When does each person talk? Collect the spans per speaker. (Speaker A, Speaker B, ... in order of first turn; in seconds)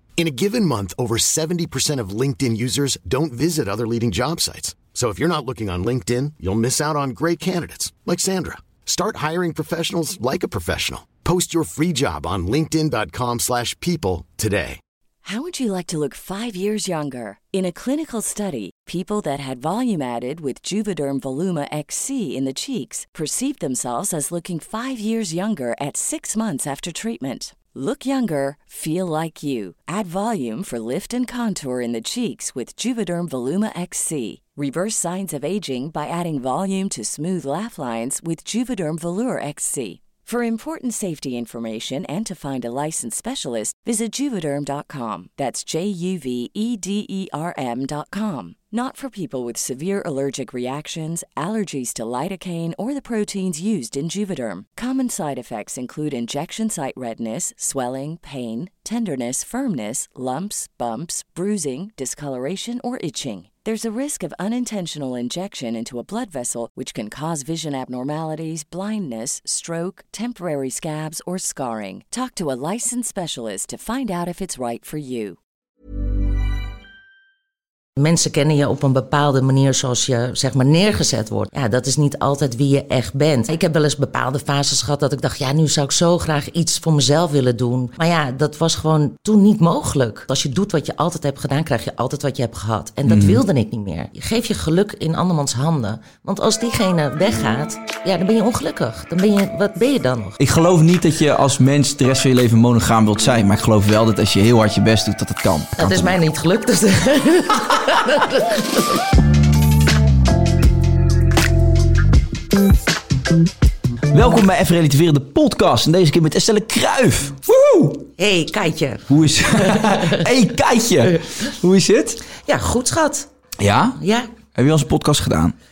Speaker A: 0.2-14.8
Speaker B: 15.2-75.4
Speaker C: 78.0-100.4, 105.8-109.0, 118.2-120.3, 122.4-123.3, 124.0-124.3
Speaker D: 93.0-93.4, 100.4-106.1, 114.1-118.1, 119.1-122.2, 123.6-124.0, 124.5-125.5